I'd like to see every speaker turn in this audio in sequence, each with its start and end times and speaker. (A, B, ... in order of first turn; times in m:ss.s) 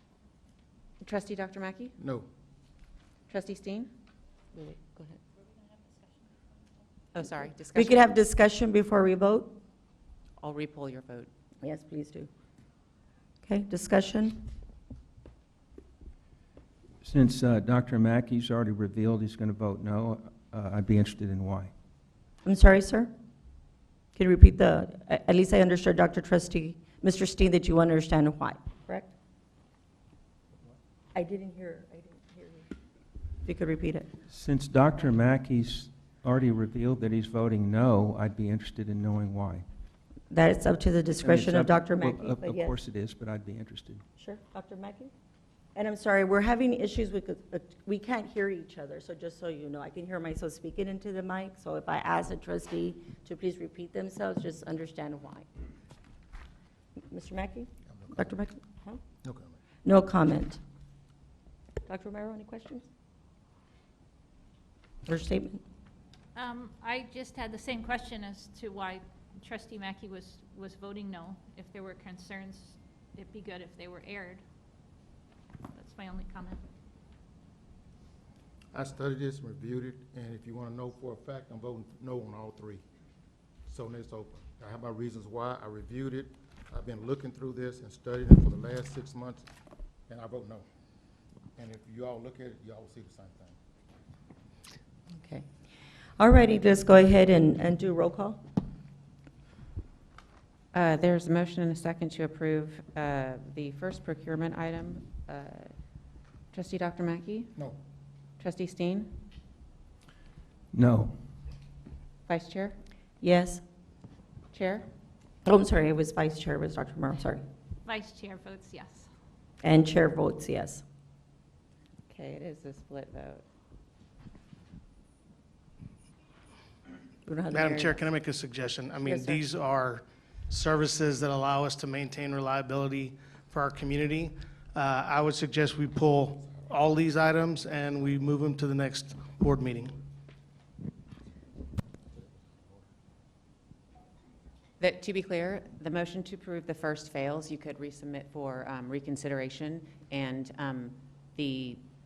0:01.0-0:02.0 A
0:02.0-0:02.3 B
0:03.3-0:03.9 A
0:04.6-0:05.2 C
0:07.1-0:08.1 A
0:07.8-0:09.6 C
0:10.4-0:11.3 A
0:11.6-0:12.3 C
0:13.4-0:14.4 C
0:17.0-0:21.7 D
0:22.4-0:23.1 C
0:24.2-0:29.1 C
0:31.2-0:32.7 C
0:33.4-0:34.1 C
0:34.3-0:39.6 D
0:40.3-0:42.8 C
0:41.2-0:44.0 D
0:44.2-0:45.1 C
0:45.8-0:55.5 C
0:57.1-0:59.0 C
0:57.9-0:58.3 B
0:59.2-0:59.6 B
0:59.8-1:00.6 C
1:01.9-1:02.9 C
1:05.1-1:05.6 C
1:06.4-1:14.4 E
1:15.7-1:16.6 E
1:18.7-1:22.8 B
1:23.7-1:29.5 B
1:30.1-1:30.7 B
1:31.6-1:33.6 B
1:35.2-1:35.5 C
1:36.2-1:38.4 C
1:40.7-1:45.8 A
1:46.5-1:47.5 A
1:48.4-1:49.1 A
1:50.7-1:51.2 D
1:52.3-1:52.8 A
1:53.2-1:53.6 C
1:54.5-1:54.9 A
1:55.4-1:57.4 C
1:57.8-1:59.1 E
1:59.6-2:00.8 C
2:02.1-2:03.4 A
2:07.3-2:08.0 C
2:07.5-2:20.0 F
2:09.0-2:09.4 C
2:24.8-2:31.8 A